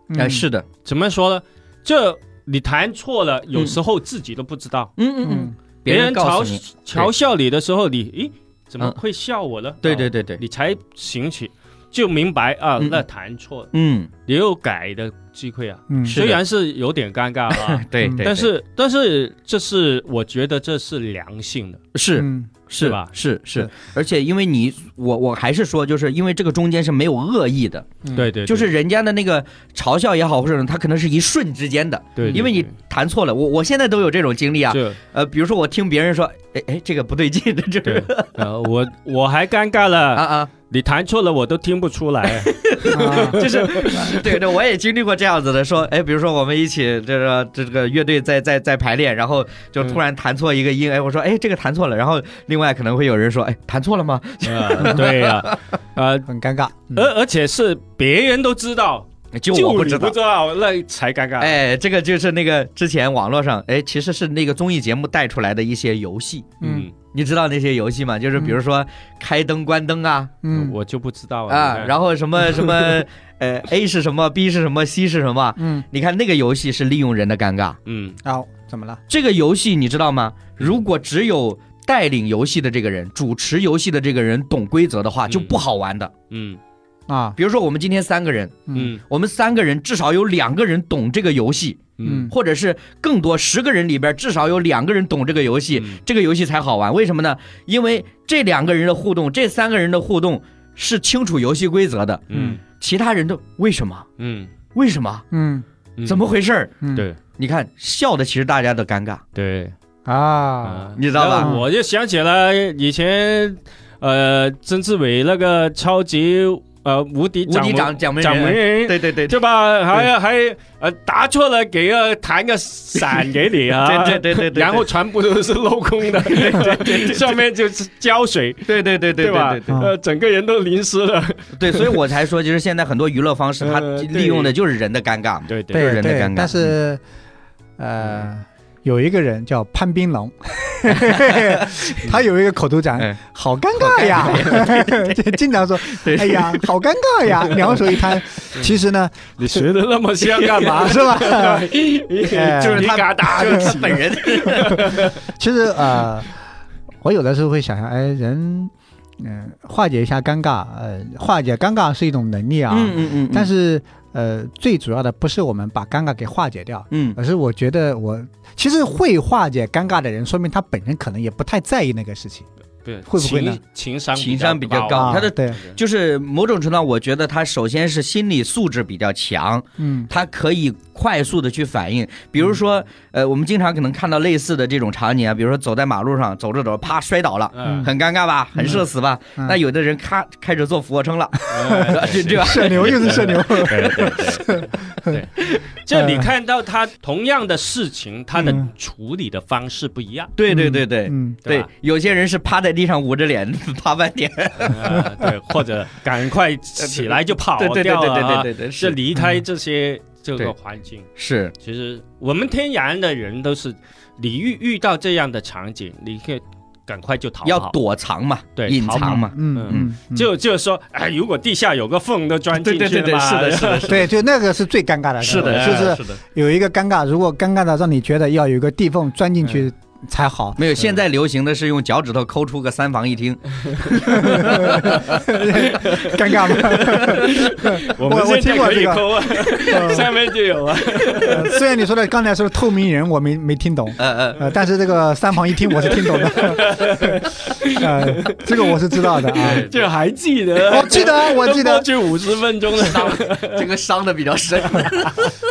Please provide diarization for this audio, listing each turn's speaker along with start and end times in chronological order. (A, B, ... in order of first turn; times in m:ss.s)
0:00.1-0:00.4 A
0:00.2-0:00.7 B
0:00.8-0:04.9 C
0:05.0-0:07.1 B
0:05.2-0:05.5 A
0:05.9-0:13.7 C
0:09.8-0:10.4 B
0:12.8-0:13.0 B
0:13.7-0:14.1 B
0:14.3-0:21.8 C
0:15.9-0:16.2 A
0:16.0-0:16.4 B
0:17.5-0:18.5 B
0:21.9-0:38.3 B
0:22.2-0:22.5 A
0:22.8-0:23.1 C
0:28.1-0:28.7 C
0:32.2-0:32.7 C
0:34.7-0:35.0 C
0:37.8-0:44.3 C
0:40.1-0:40.5 B
0:42.3-0:55.6 B
0:42.9-0:43.4 A
0:54.4-0:56.3 C
0:56.3-0:57.1 A
0:57.0-1:01.6 C
0:59.3-1:00.2 B
1:01.4-1:06.6 B
1:06.6-1:06.9 C
1:06.6-1:06.9 A
1:07.1-1:10.3 B
1:10.4-1:10.8 A
1:10.5-1:11.9 C
1:11.5-1:17.8 B
1:12.5-1:13.0 C
1:15.6-1:15.8 A
1:17.9-1:18.2 C
1:18.2-1:19.0 A
1:19.1-1:26.1 B
1:25.3-1:25.6 C
1:26.3-1:26.6 C
1:27.1-1:27.4 A
1:27.4-1:42.2 B
1:28.7-1:28.9 A
1:28.7-1:29.0 C
1:32.0-1:32.3 C
1:32.0-1:32.3 A
1:35.8-1:36.0 C
1:42.3-1:42.6 C
1:42.3-1:42.6 A
1:42.8-1:44.1 B
1:44.2-1:44.5 C
1:44.7-1:45.3 B
1:45.3-1:45.6 A
1:46.0-1:46.7 B
1:47.4-1:49.2 B
1:49.3-1:49.7 C
1:50.0-1:51.6 A
1:50.6-2:12.0 C
1:51.0-1:51.6 B
1:57.4-1:59.4 B
2:03.8-2:04.9 B
2:06.2-2:07.4 B
2:08.7-2:09.8 B
2:11.6-2:16.7 B
2:13.6-2:14.5 C
2:15.5-2:15.9 C
2:15.7-2:17.0 A
2:17.8-2:29.7 A
2:21.0-2:21.9 B
2:23.7-2:25.2 B
2:25.8-2:26.7 B
2:29.4-2:35.2 C
2:30.3-2:31.0 B
2:30.8-2:31.7 A
2:32.2-2:33.7 A
2:32.5-2:35.0 B
2:34.6-2:36.3 A
2:37.0-2:52.4 A
2:42.7-2:43.5 B
2:46.9-2:47.2 B
2:52.8-2:55.8 C
2:53.1-2:53.6 A
2:54.1-3:14.2 B
2:54.9-2:55.6 A
2:59.8-3:00.1 A
3:07.5-3:07.9 C
3:07.6-3:07.9 A
3:08.6-3:08.8 A
3:11.5-3:20.3 C
3:11.7-3:15.2 A
3:15.9-3:16.3 A
3:20.4-3:25.3 B
3:20.5-3:21.4 A
3:24.6-3:31.1 C
3:26.8-3:29.0 B
3:29.2-3:29.4 A
3:31.2-3:31.5 B
3:31.6-3:37.7 C
3:37.4-3:39.9 B
3:38.6-3:44.0 C
3:39.0-3:40.3 A
3:42.5-3:44.1 B
3:43.9-3:50.7 A
3:45.2-3:46.2 B
3:45.3-3:46.0 C
3:50.6-3:55.2 B
3:54.1-4:00.1 A
3:54.4-3:55.0 C
3:55.6-4:01.5 C
3:56.7-3:57.2 B
4:01.0-4:01.3 B
4:01.2-4:06.7 A
4:04.0-4:04.4 B
4:05.8-4:13.7 C
4:07.8-4:09.7 A
4:09.4-4:09.8 B
4:10.7-4:11.9 A
4:12.7-4:15.3 B
4:14.7-4:15.3 C